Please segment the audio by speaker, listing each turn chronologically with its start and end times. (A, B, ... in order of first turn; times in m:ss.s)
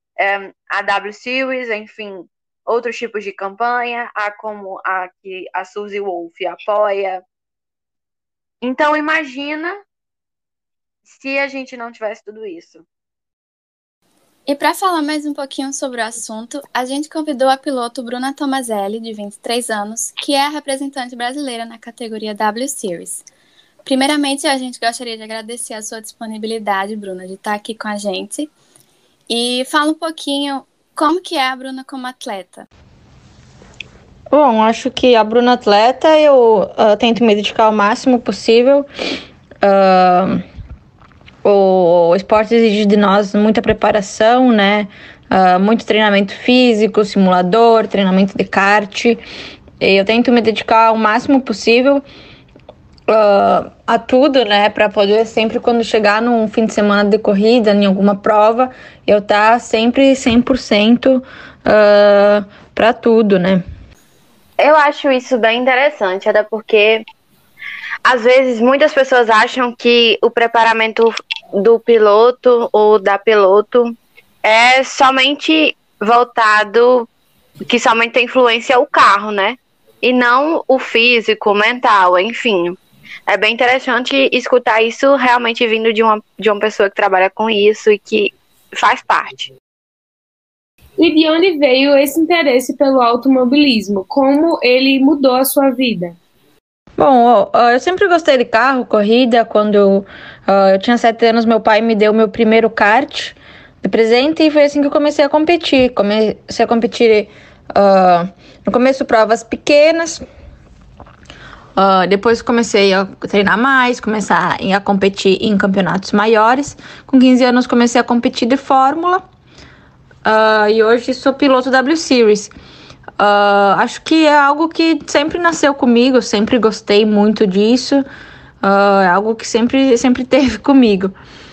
0:00.2-0:07.2 A
0:08.6-0:09.8 A
0:11.0-0:12.9 A
0:14.5-0:23.2 B
0:23.8-0:28.5 B
0:29.3-0:32.7 B
0:34.3-0:38.9 C
0:39.6-0:40.4 C
0:41.4-0:49.2 C
0:49.8-0:52.0 C
0:53.1-1:03.6 C
1:04.6-1:07.0 A
1:08.0-1:17.1 A
1:17.7-1:29.5 A
1:31.0-1:36.2 D
1:37.0-1:50.2 C
1:51.8-1:59.2 C
2:00.2-2:02.5 C
2:03.2-2:08.0 C
2:08.6-2:11.1 C